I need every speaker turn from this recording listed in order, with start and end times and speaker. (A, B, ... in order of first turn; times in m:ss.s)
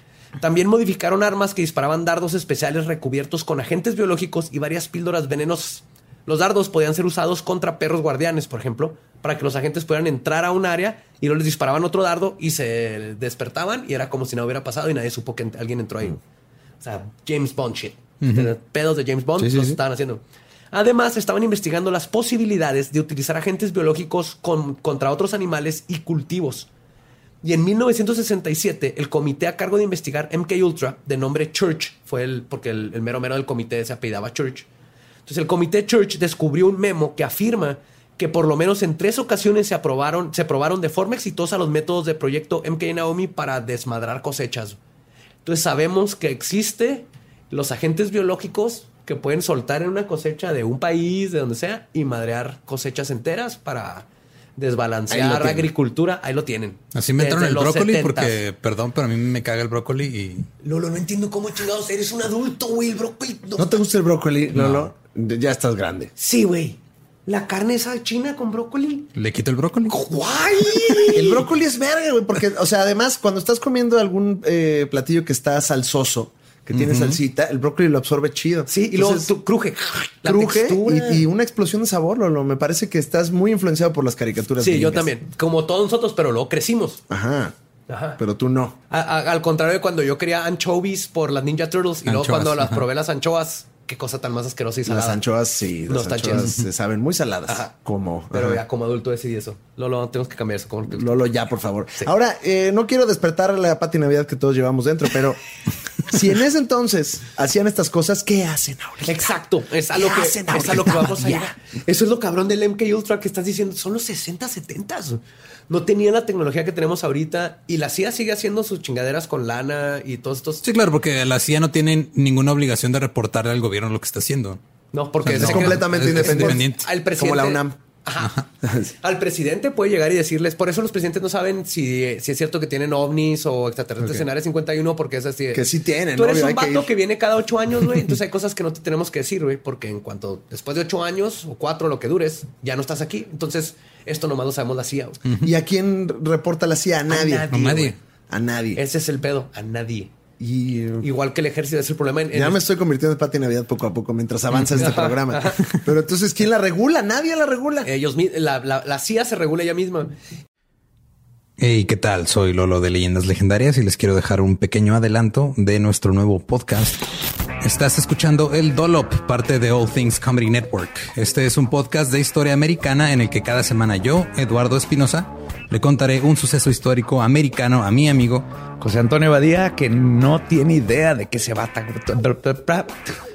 0:00.4-0:16.2 A
0:16.8-0:26.7 A
0:18.2-0:18.5 B
0:19.4-0:19.8 C
0:27.4-0:34.7 A
0:35.2-0:44.8 A
0:45.4-0:58.4 A
0:55.1-0:55.7 C
0:56.9-1:00.5 B
1:00.6-1:03.8 A
1:03.6-1:06.1 C
1:04.5-1:04.9 B
1:06.2-1:09.1 A
1:09.2-1:10.0 B
1:09.9-1:11.4 A
1:11.1-1:19.3 C
1:16.7-1:17.2 B
1:18.7-1:21.2 A
1:20.2-1:25.1 C
1:24.6-1:27.0 A
1:27.1-1:27.5 C
1:27.9-1:28.2 A
1:28.2-1:28.8 C
1:28.9-1:35.2 A
1:32.0-1:32.8 B
1:34.8-1:38.6 C
1:35.9-1:36.6 A
1:37.5-1:37.7 A
1:38.3-1:41.2 A
1:40.9-1:45.4 C
1:46.0-1:49.3 C
1:49.0-2:00.6 A
1:49.9-1:51.6 C
2:00.6-2:04.6 B
2:04.9-2:08.4 A
2:05.2-2:06.9 B
2:05.4-2:07.8 C
2:08.2-2:08.4 B
2:08.6-2:08.9 C
2:09.0-2:25.2 A
2:15.5-2:16.9 C
2:25.2-2:25.5 B
2:25.4-2:27.5 C
2:27.1-2:28.0 A
2:27.5-2:28.0 B
2:28.3-2:28.8 C
2:28.8-2:30.1 A
2:30.4-2:31.1 C
2:31.0-2:32.6 A
2:32.3-2:37.9 C
2:34.7-2:35.6 A
2:37.8-2:40.1 A
2:41.6-2:47.0 B
2:47.6-2:58.4 B
2:58.8-3:03.0 D